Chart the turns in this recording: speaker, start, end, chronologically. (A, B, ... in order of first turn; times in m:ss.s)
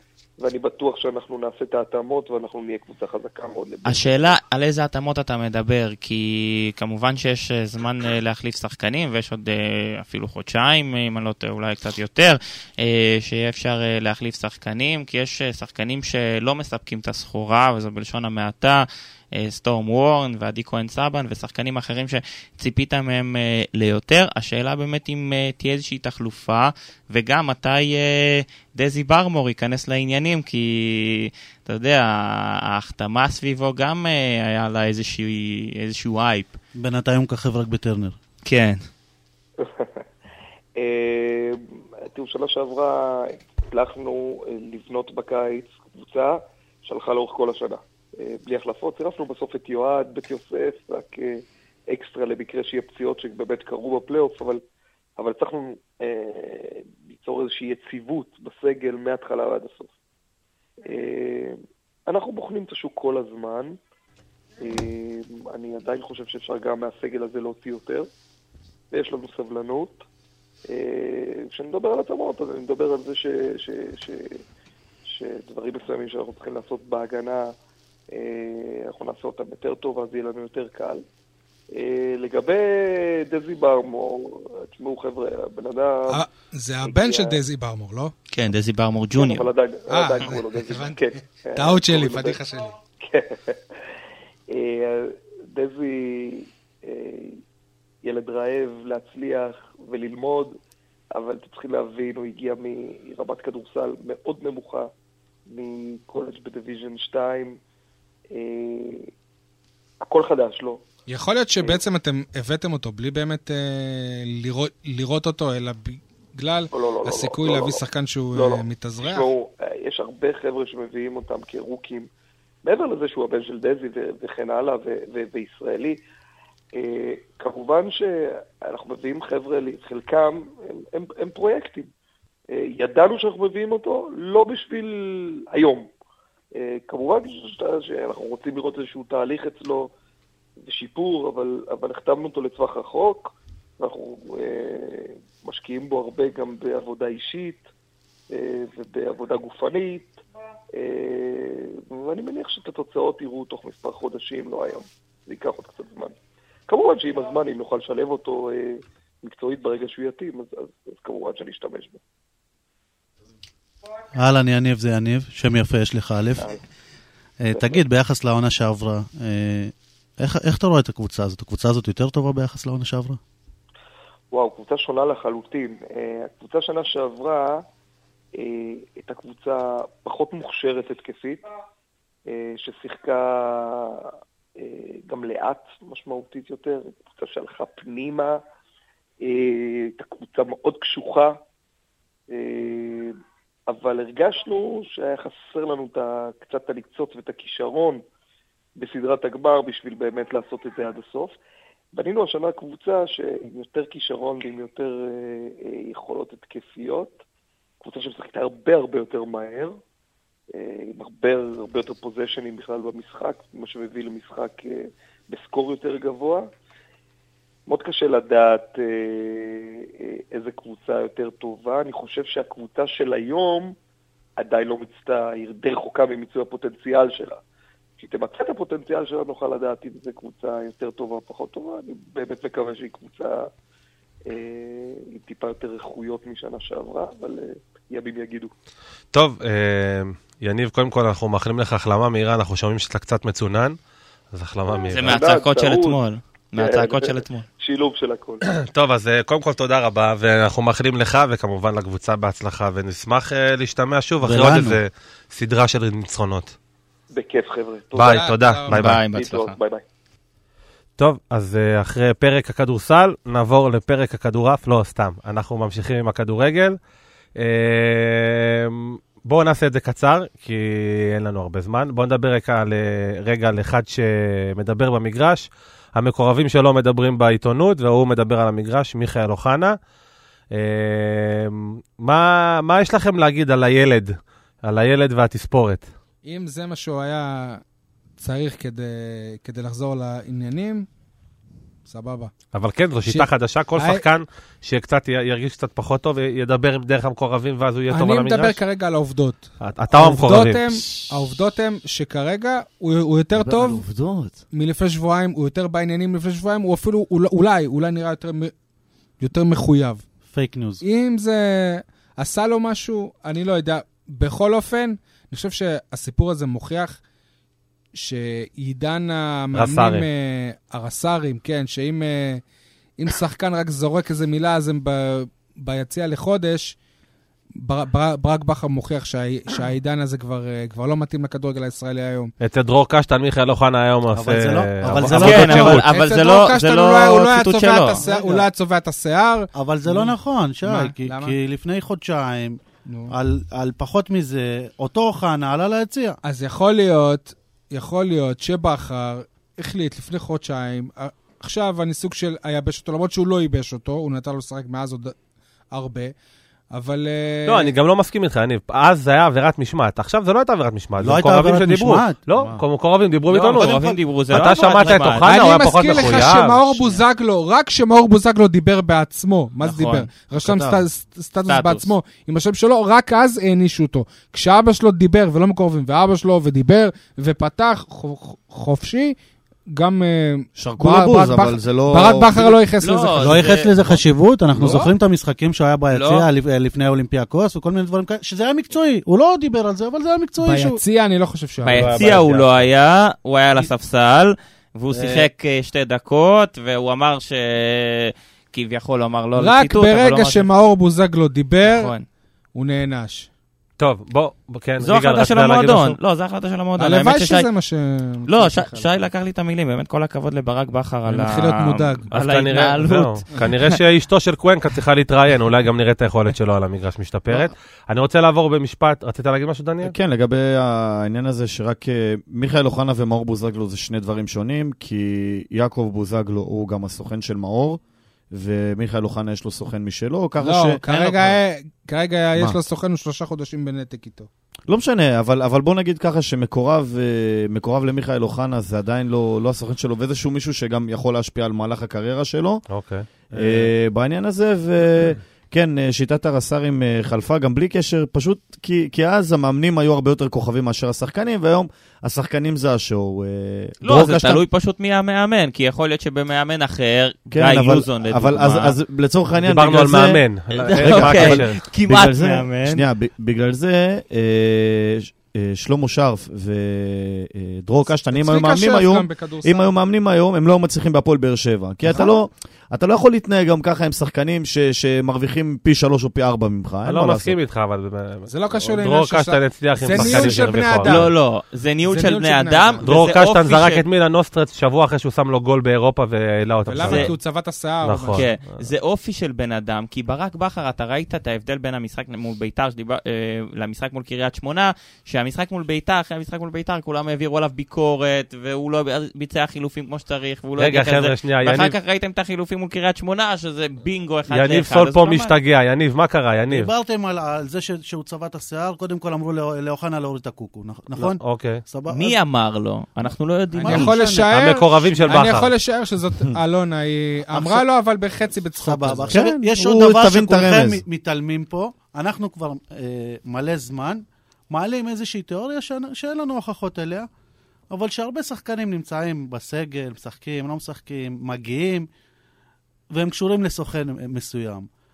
0:00.4-0:04.4 A
0:03.8-0:36.6 B
0:36.8-0:38.2 C
0:38.4-0:38.8 B
0:39.6-0:39.9 A
0:40.8-0:54.6 A
0:55.2-0:59.9 A
1:00.8-1:03.8 A
1:04.6-1:08.1 A
1:08.9-1:10.0 A
1:10.7-1:14.4 A
1:15.0-1:17.5 A
1:18.1-1:21.0 A
1:21.7-1:26.2 A
1:26.1-1:28.1 D
1:26.8-1:27.4 A
1:28.3-1:29.5 B
1:29.1-1:32.4 A
1:29.9-1:32.7 D
1:33.0-1:33.6 A
1:34.5-1:37.4 A
1:38.0-1:40.5 A
1:41.1-1:44.9 A
1:45.5-1:47.6 A
1:48.3-1:49.1 A
1:50.0-1:50.8 A
1:51.1-1:59.3 D
1:56.7-1:57.8 A
1:58.3-2:02.1 A
2:02.6-2:06.0 A
2:06.7-2:11.9 A
2:12.5-2:15.9 A
2:16.5-2:19.9 A
2:20.6-2:27.7 A
2:28.3-2:30.2 A
2:30.7-2:36.1 A
2:36.7-2:42.0 A
2:44.1-2:46.5 C
2:47.4-2:53.2 C
2:47.5-2:47.8 A
2:54.3-2:57.6 A
2:58.3-3:01.4 A
3:02.3-3:08.4 A
3:09.2-3:11.4 A
3:12.3-3:13.1 A
3:13.7-3:18.0 A
3:18.8-3:21.3 A
3:21.9-3:27.2 A
3:27.8-3:29.8 A
3:30.5-3:36.5 A
3:37.7-3:43.7 A
3:44.4-3:47.4 A
3:48.0-3:53.5 A
3:54.3-3:58.5 A
3:59.1-4:03.8 E
4:04.3-4:05.2 E
4:04.9-4:07.5 B
4:04.9-4:06.0 A
4:06.6-4:08.4 A
4:08.5-4:16.6 E
4:14.2-4:14.8 C
4:17.1-4:18.3 A
4:17.9-4:19.0 E
4:18.0-4:18.8 D
4:18.7-4:19.6 B
4:19.0-4:19.8 A
4:21.0-4:26.8 E
4:27.4-4:39.8 E
4:40.5-4:45.9 E
4:46.2-4:47.6 D
4:48.2-4:50.8 D
4:51.9-4:52.3 D
4:52.5-4:58.6 E
4:53.0-4:54.1 D
4:57.9-5:03.8 D
4:59.6-5:00.8 E
5:03.4-5:04.4 F
5:04.5-5:08.5 D
5:09.2-5:10.0 D
5:10.3-5:10.8 C
5:10.8-5:17.0 D
5:17.9-5:22.4 D
5:19.5-5:20.0 E
5:23.0-5:26.8 D
5:27.6-5:32.3 D
5:32.4-5:35.9 E
5:34.1-5:35.8 C
5:35.0-5:38.0 B
5:35.2-5:41.4 D
5:38.0-5:38.5 C
5:39.5-5:46.2 C
5:42.9-5:43.1 D
5:46.2-5:55.1 D
5:55.7-5:56.1 D
5:56.7-5:57.7 D
5:57.4-6:03.8 E
6:01.0-6:02.2 C
6:03.3-6:05.3 B
6:03.3-6:05.2 C
6:04.3-6:06.7 E
6:05.2-6:19.2 D
6:09.6-6:10.1 B
6:10.4-6:10.8 F
6:11.5-6:11.9 B
6:19.7-6:23.5 D
6:20.6-6:22.6 F
6:22.8-6:24.0 B
6:23.2-6:30.8 C
6:24.6-6:24.9 D
6:25.9-6:26.3 B
6:30.4-6:31.9 D
6:31.6-6:40.5 B
6:31.7-6:32.6 E
6:34.9-6:35.3 C
6:39.4-6:41.9 D
6:41.6-6:42.0 B
6:42.5-6:43.3 D
6:43.8-6:46.0 E
6:44.8-6:47.5 B
6:46.8-6:48.9 D
6:48.3-6:53.6 B
6:51.0-6:52.1 D
6:52.1-6:59.9 E
6:59.8-7:07.8 F
7:08.3-7:11.4 F
7:10.4-7:14.3 D
7:14.7-7:22.6 F
7:22.7-7:23.7 E
7:23.3-7:34.4 F
7:33.8-7:38.7 B
7:37.3-7:40.2 F
7:39.4-7:41.6 E
7:40.5-7:42.8 B
7:40.7-7:57.3 F
7:48.1-7:49.7 D
7:56.8-8:01.1 E
7:58.3-8:01.1 D
7:59.9-8:03.8 B
8:01.8-8:02.8 D
8:02.8-8:07.1 E
8:06.6-8:08.2 D
8:06.8-8:07.1 B
8:07.8-8:08.3 E
8:08.1-8:25.3 B
8:20.6-8:21.7 E
8:24.3-8:26.7 E
8:26.5-8:32.2 C
8:31.0-8:31.6 E
8:31.9-8:33.9 B
8:33.5-8:34.3 C
8:33.6-8:39.2 D
8:34.3-8:35.5 E
8:37.3-8:37.6 C
8:38.6-8:47.1 C
8:39.1-8:40.8 F
8:47.7-8:51.9 C
8:52.9-8:54.7 C